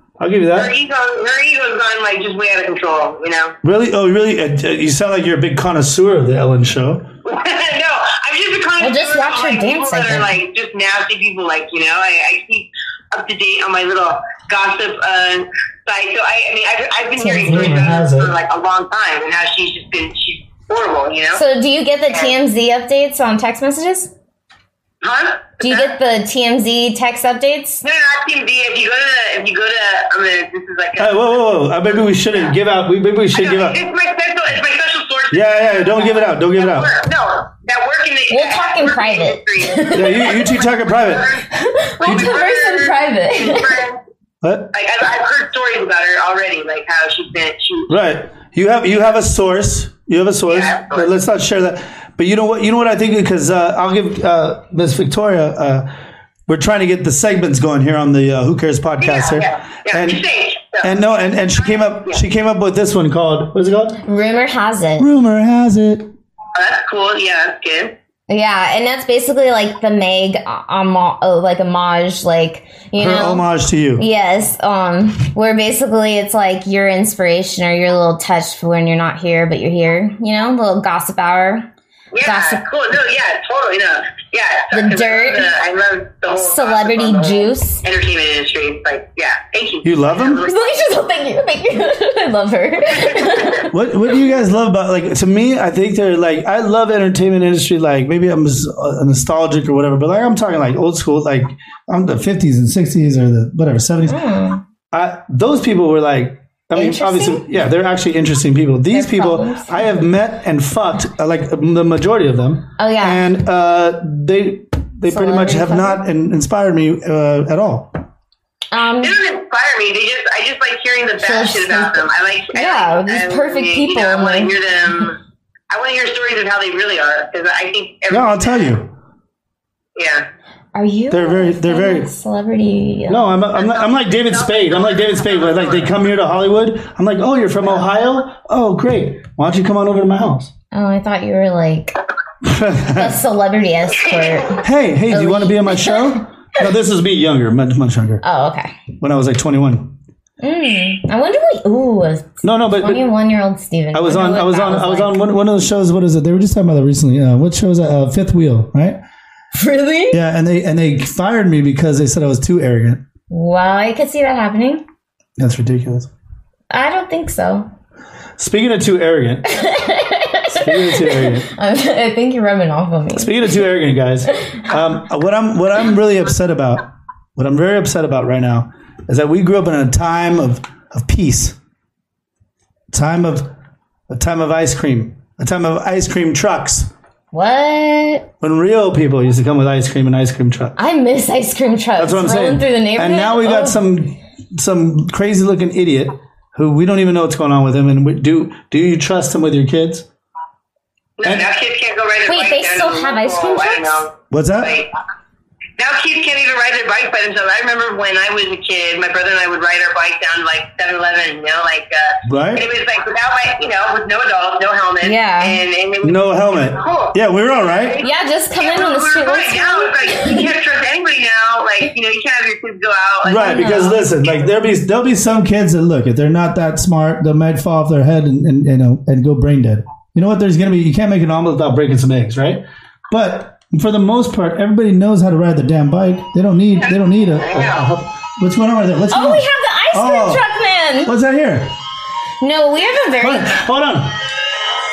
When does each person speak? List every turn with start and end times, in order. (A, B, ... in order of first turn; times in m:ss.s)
0:00.2-0:00.7 A
0:00.5-0:03.5 B
0:03.6-0:07.1 A
0:07.2-0:21.4 B
0:08.8-0:10.4 C
0:17.2-0:17.8 C
0:17.4-0:18.3 A
0:21.3-0:24.1 C
0:25.0-0:25.9 B
0:25.6-0:27.8 C
0:27.8-0:31.3 B
0:31.0-0:33.8 A
0:33.3-0:41.4 B
0:35.3-0:37.0 A
0:38.3-0:40.6 C
0:39.9-0:41.3 A
0:41.5-0:43.8 C
0:42.0-0:44.0 B
0:44.4-0:44.7 A
0:44.7-0:48.0 B
0:47.9-0:55.9 A
0:50.5-0:51.1 B
0:56.5-1:00.2 A
0:59.0-1:02.2 B
1:00.8-1:04.0 A
1:04.0-1:05.1 C
1:05.0-1:06.1 A
1:06.5-1:07.9 B
1:08.3-1:13.4 C
1:13.0-1:14.0 A
1:14.0-1:21.7 C
1:22.1-1:30.7 B
1:22.2-1:22.6 C
1:24.7-1:25.5 C
1:26.3-1:27.8 C
1:29.8-1:30.4 A
1:30.4-1:33.7 C
1:33.6-1:44.2 A
1:44.1-1:44.6 C
1:44.9-1:58.0 A
1:46.7-1:47.4 C
1:48.9-1:49.8 C
1:52.8-1:53.2 C
1:55.1-1:56.0 C
1:58.7-1:59.2 C
1:59.0-2:05.2 B
2:01.2-2:04.5 C
2:05.7-2:08.8 B
2:08.1-2:08.9 A
2:10.0-2:10.3 B
2:10.7-2:13.3 C
2:11.1-2:12.1 A
2:13.1-2:20.5 A
2:13.5-2:16.0 B
2:20.7-2:22.0 C
2:22.4-2:23.2 A
2:22.9-2:26.2 C
2:24.0-2:24.5 B
2:24.6-2:28.2 A
2:28.2-2:28.7 C
2:29.0-2:30.0 A
2:30.4-2:35.2 C
2:32.4-2:33.0 A
2:33.9-2:39.0 A
2:39.5-2:40.2 C
2:40.1-2:43.0 A
2:43.3-2:44.8 C
2:45.4-2:46.1 A
2:46.7-2:47.7 C
2:48.4-2:49.4 A
2:49.5-2:53.6 C
2:50.5-2:51.5 A
2:53.1-2:56.8 A
2:57.4-3:01.6 A
3:02.9-3:03.5 A
3:04.1-3:06.9 A
3:07.3-3:08.3 C
3:08.4-3:10.8 A
3:10.8-3:13.8 C
3:12.0-3:20.0 A
3:21.2-3:24.9 B
3:21.2-3:21.5 A
3:22.2-3:24.1 C
3:24.3-3:24.8 A
3:25.8-3:44.0 B
3:32.2-3:32.7 A
3:35.0-3:35.6 C
3:36.0-3:38.0 A
3:38.0-3:40.5 C
3:43.2-4:00.4 A
3:43.3-3:44.0 C
3:56.8-3:57.9 B
3:59.1-4:01.1 C
4:01.0-4:01.8 A
4:02.4-4:03.6 C
4:03.2-4:04.2 A